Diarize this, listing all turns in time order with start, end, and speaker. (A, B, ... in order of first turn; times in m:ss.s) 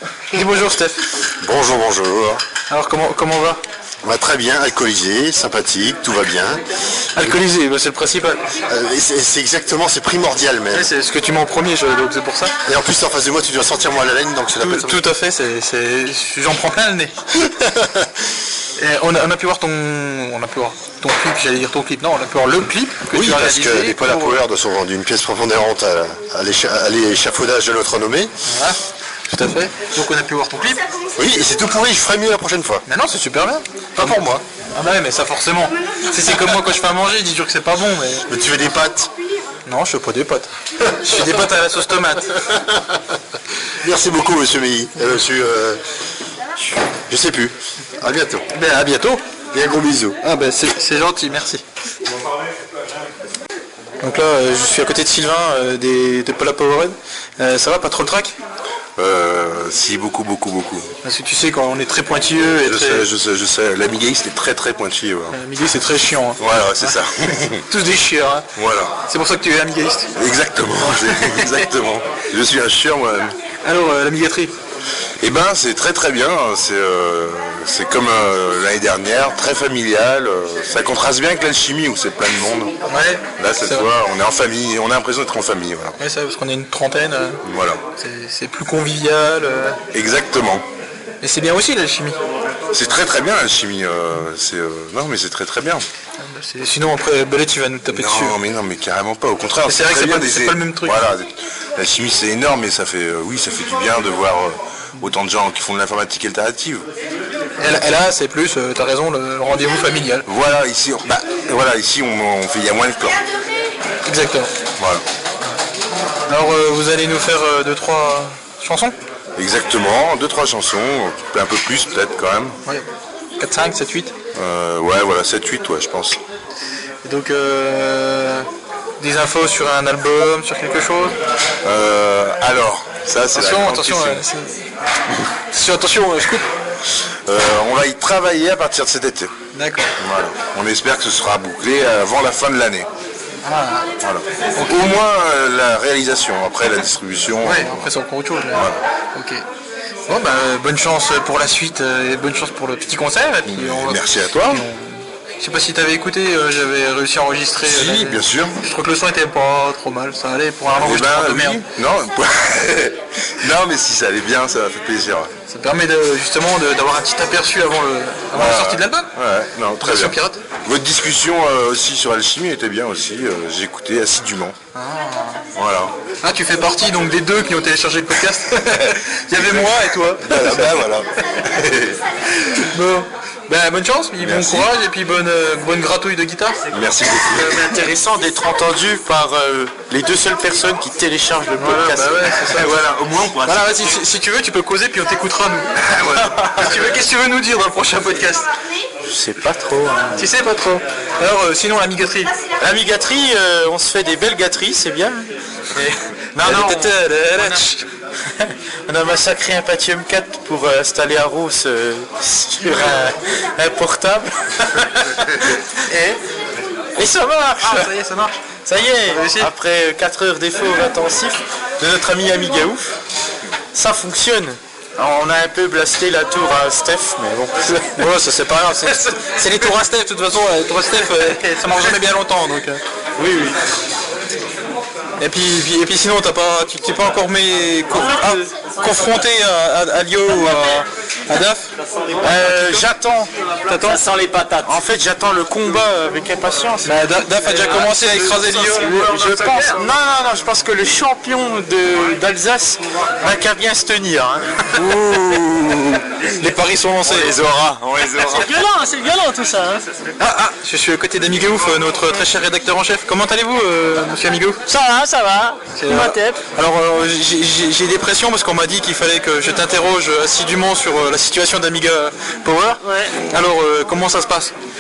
0:00.3-0:01.1 A
0:01.4-0:02.4 B
0:02.7-0:03.6 A
0:04.0-0:06.6 B
0:07.2-0:08.5 A
0:08.7-0:10.9 B
0:10.7-0:12.5 A
0:12.7-0:15.1 B
0:14.6-0:17.2 A
0:18.8-0:24.4 A
0:23.1-0:28.3 B
0:28.5-0:28.8 A
0:29.3-0:30.8 A
0:31.2-0:32.8 B
0:32.9-0:38.2 A
0:34.0-0:34.4 B
0:38.3-0:39.1 B
0:39.7-0:42.3 A
0:43.8-0:45.8 B
0:47.1-0:48.5 B
0:48.5-0:49.2 A
0:49.5-0:50.2 B
0:50.2-0:51.6 A
0:54.0-0:58.4 A
0:59.0-1:00.9 C
1:01.0-1:03.1 A
1:02.6-1:05.4 C
1:05.3-1:06.4 A
1:06.4-1:07.6 C
1:07.7-1:08.5 A
1:08.6-1:09.0 C
1:09.1-1:10.1 A
1:10.2-1:13.4 C
1:11.0-1:11.6 A
1:13.6-1:14.6 A
1:15.2-1:22.7 C
1:22.9-1:23.9 A
1:23.4-1:26.0 C
1:26.0-1:27.4 A
1:27.4-1:27.8 C
1:28.0-1:29.8 A
1:29.9-1:30.6 C
1:31.2-1:32.2 A
1:32.7-1:35.8 C
1:36.2-1:38.4 A
1:37.9-1:46.9 C
1:39.7-1:41.0 A
1:47.6-1:50.2 A
1:50.3-1:53.2 C
1:54.1-1:54.5 A
1:54.8-1:55.0 C
1:56.3-1:59.0 A
1:59.4-2:02.6 C
2:03.4-2:04.2 A
2:04.4-2:06.2 C
2:07.0-2:08.5 A
2:09.0-2:11.2 A
2:11.6-2:14.2 C
2:13.3-2:14.6 A
2:15.5-2:16.5 A
2:17.3-2:19.4 C
2:19.5-2:19.9 A
2:20.0-2:22.9 C
2:23.4-2:23.9 A
2:24.0-2:27.9 C
2:24.6-2:24.9 A
2:27.4-2:29.4 A
2:28.5-2:28.8 C
2:30.1-2:41.6 A
2:33.5-2:34.7 C
2:37.6-2:38.6 C
2:40.8-2:45.3 C
2:45.5-2:49.1 A
2:48.3-2:54.6 C
2:49.8-2:50.4 A
2:54.7-2:55.4 A
2:55.6-2:56.0 C
2:56.2-3:00.9 A
2:59.4-3:02.0 C
3:02.7-3:06.6 A
3:04.2-3:04.7 C
3:06.7-3:07.7 C
3:07.3-3:13.3 D
3:11.6-3:18.5 A
3:16.0-3:16.6 C
3:19.0-3:20.3 D
3:20.2-3:22.3 A
3:22.6-3:27.7 D
3:26.4-3:27.9 A
3:28.9-3:35.1 D
3:35.9-3:36.2 A
3:37.0-3:37.9 D
3:37.6-3:38.4 A
3:38.5-3:42.9 D
3:39.1-3:39.5 A
3:43.7-3:48.0 D
3:47.7-3:52.8 A
3:53.2-3:53.6 D
3:55.2-4:01.7 A
3:57.9-3:58.4 D
4:02.2-4:14.9 D
4:03.7-4:04.0 A
4:06.8-4:09.1 A
4:14.8-4:17.3 A
4:17.1-4:18.3 D
4:18.2-4:19.8 E
4:20.2-4:24.6 A
4:24.7-4:26.4 E
4:25.8-4:34.5 A
4:32.8-4:33.2 E